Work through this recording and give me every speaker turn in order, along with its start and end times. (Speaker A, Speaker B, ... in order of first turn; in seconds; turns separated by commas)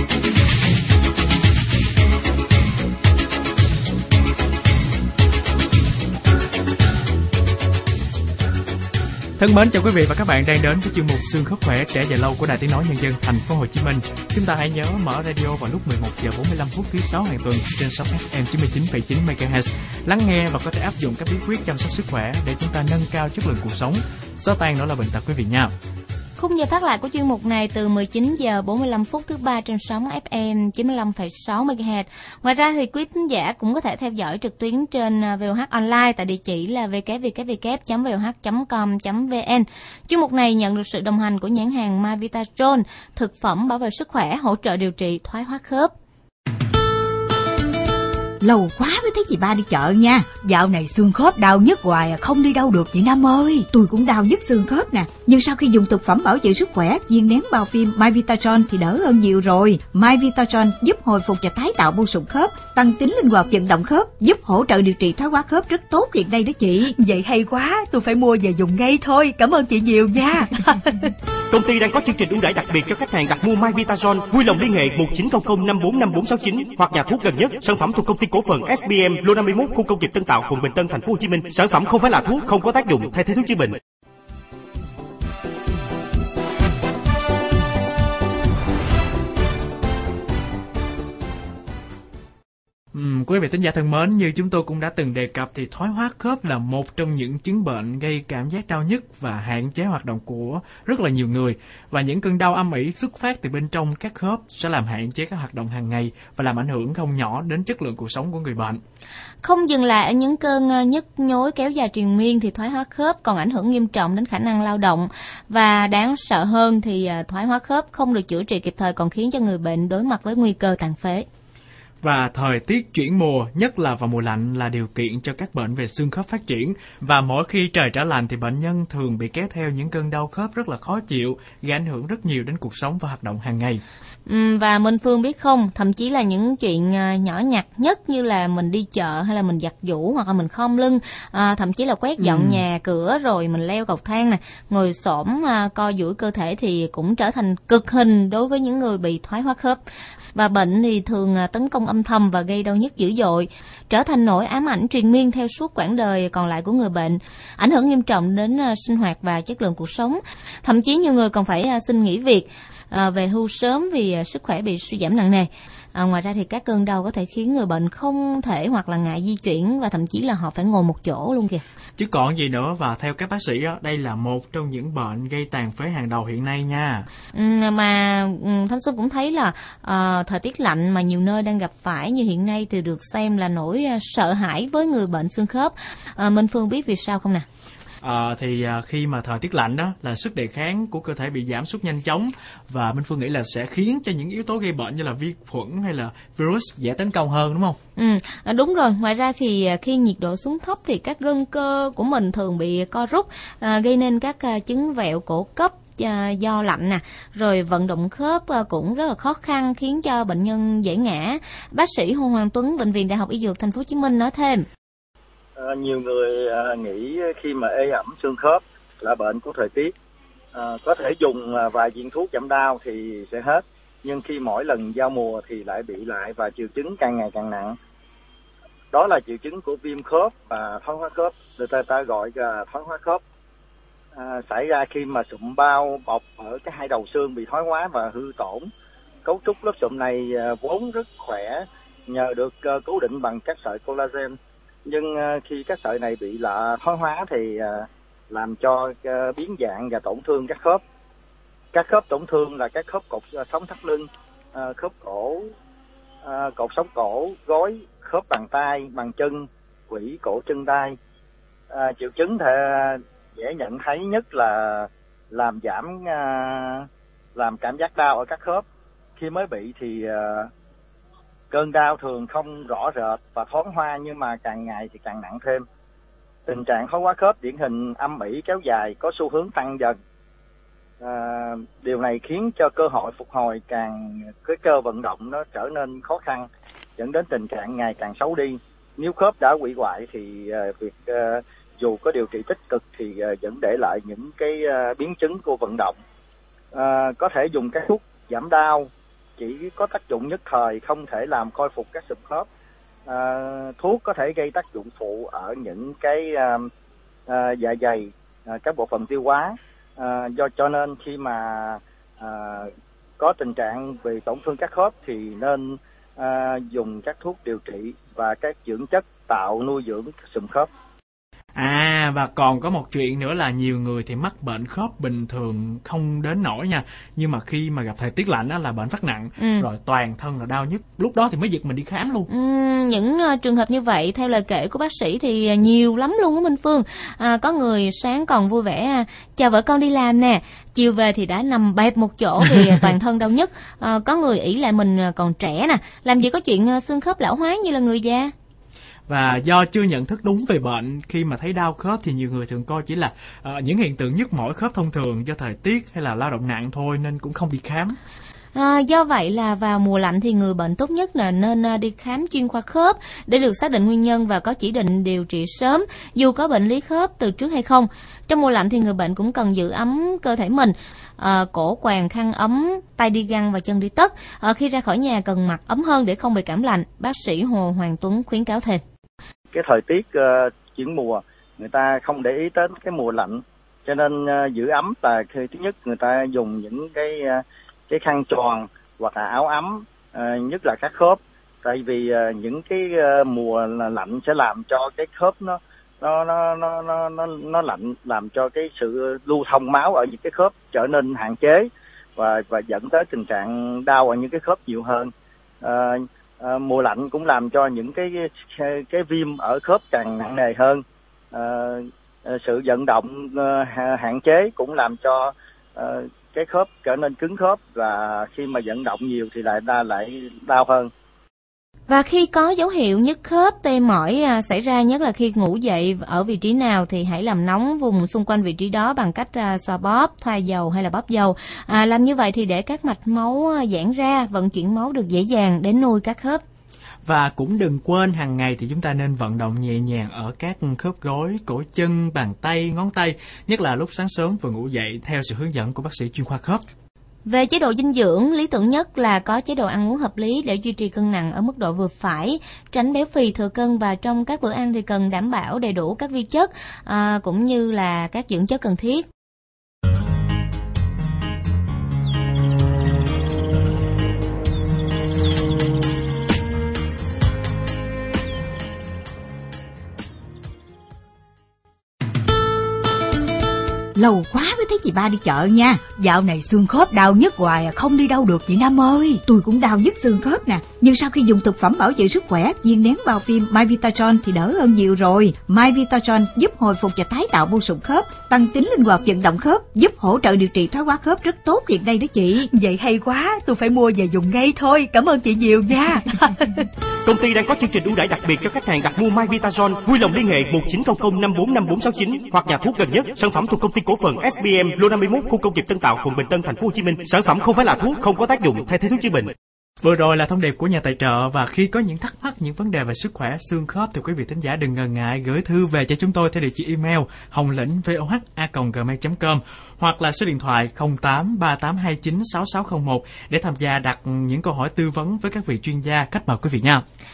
Speaker A: 9.4-25.7, Speaker B: 26.4-45.9, Speaker C: 48.4-50.2, Speaker D: 50.4-53.6, Speaker C: 53.7-66.9, Speaker D: 67.0-71.1, Speaker E: 71.5-83.8, Speaker A: 92.9-108.8, Speaker B: 109.4-121.2, Speaker A: 122.0-133.8, Speaker B: 134.2-149.8, Speaker A: 142.2-142.6, Speaker B: 150.3-171.6, Speaker A: 172.0-177.1, Speaker B: 177.3-187.4, Speaker A: 188.0-197.8, Speaker B: 198.0-214.6, Speaker F: 215.6-219.9, Speaker F: 220.5-227.7, Speaker F: 228.9-233.2, Speaker F: 234.1-238.7, Speaker F: 239.2-244.3, Speaker F: 244.8-250.8, Speaker F: 251.7-255.4, Speaker F: 256.2-260.9, Speaker F: 261.7-268.6, Speaker F: 269.2-270.5, Speaker F: 271.5-275.6, Speaker F: 276.5-279.9, Speaker F: 281.0-295.9, Speaker F: 296.7-302.5, Speaker F: 303.1-306.6, Speaker F: 307.3-320.7, Speaker A: 321.5-332.3, Speaker B: 329.4-329.7, Speaker B: 332.3-348.3, Speaker A: 349.1-358.0, Speaker B: 358.5-378.8, Speaker F: 379.5-405.1, Speaker F: 405.6-410.8, Speaker F: 411.3-420.9, Speaker B: 421.9-436.4, Speaker A: 437.0-446.6, Speaker B: 447.2-459.0, Speaker C: 473.9-475.8, Speaker D: 475.9-479.2, Speaker C: 479.2-492.5, Speaker D: 492.5-496.7, Speaker E: 497.0-509.3, Speaker A: 509.8-526.8